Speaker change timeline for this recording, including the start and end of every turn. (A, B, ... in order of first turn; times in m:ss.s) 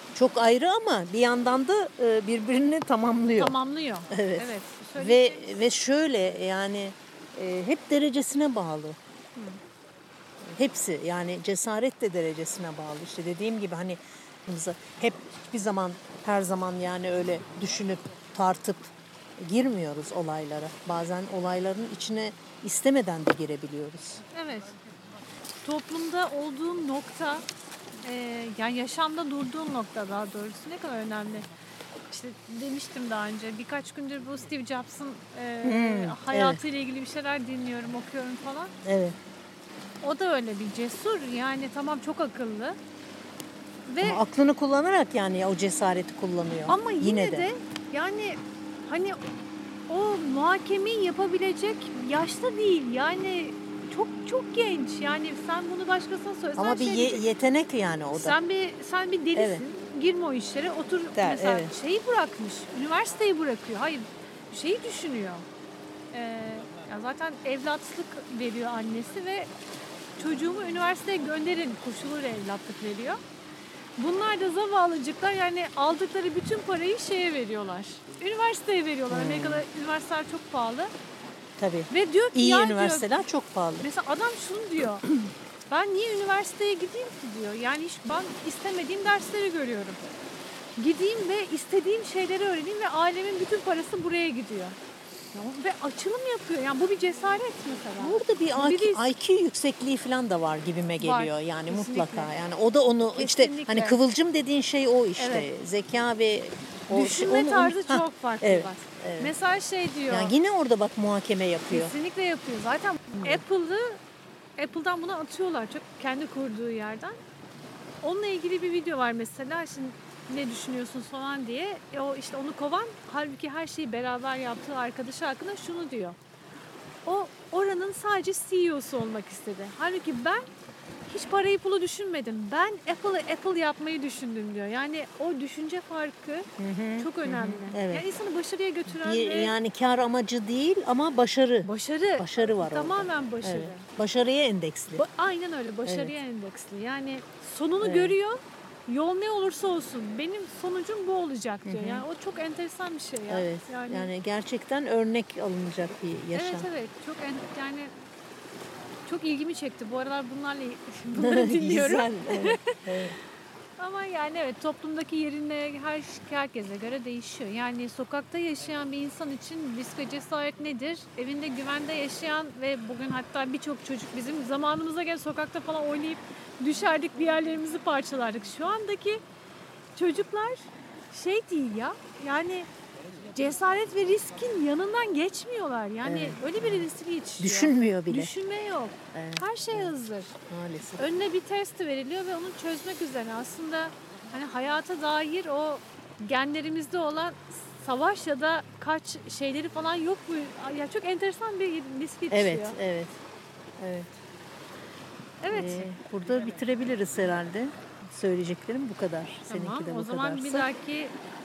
0:00.1-0:03.5 A
0:03.4-0:05.6 B
0:04.1-0:09.0 A
0:09.4-0:09.6 B
0:10.5-0:24.2 A
0:24.3-0:24.7 B
0:25.6-0:27.4 B
0:28.0-0:31.5 B
0:32.1-0:38.7 B
0:35.6-0:36.6 A
0:38.8-0:39.2 A
0:40.0-0:42.8 B
0:43.9-0:44.2 B
0:44.0-0:47.5 A
0:46.7-0:49.2 B
0:49.9-0:57.3 B
0:56.6-0:58.4 A
0:58.1-1:05.4 B
0:59.3-0:59.6 A
1:01.2-1:01.7 A
1:06.1-1:09.5 B
1:10.2-1:13.2 B
1:14.0-1:20.9 B
1:19.1-1:19.6 A
1:21.6-1:23.9 A
1:21.9-1:23.2 B
1:23.8-1:25.0 B
1:25.7-1:30.0 B
1:30.8-1:34.8 B
1:35.3-1:39.0 B
1:38.0-1:49.3 A
1:41.0-1:42.3 B
1:43.1-1:44.0 B
1:45.2-1:45.5 B
1:46.9-1:50.3 B
1:50.1-1:51.9 A
1:51.7-1:54.0 B
1:53.1-1:53.4 A
1:54.6-1:57.2 B
1:58.0-2:06.2 B
2:07.0-2:10.4 B
2:11.1-2:19.5 B
2:16.6-2:18.0 A
2:18.9-2:25.0 A
2:21.6-2:23.8 B
2:25.0-2:34.1 B
2:25.8-2:26.1 A
2:27.8-2:28.1 A
2:31.6-2:32.0 A
2:33.3-2:36.7 A
2:36.3-2:37.9 B
2:39.0-2:42.8 B
2:41.1-2:43.2 A
2:43.8-2:59.2 B
2:59.9-3:02.7 B
3:03.3-3:10.4 B
3:06.0-3:06.8 A
3:07.4-3:08.3 A
3:09.1-3:09.9 A
3:10.5-3:11.1 A
3:11.0-3:22.8 B
3:22.3-3:23.2 A
3:23.8-3:24.1 A
3:25.4-3:25.9 B
3:25.5-3:30.7 A
3:29.5-3:31.1 B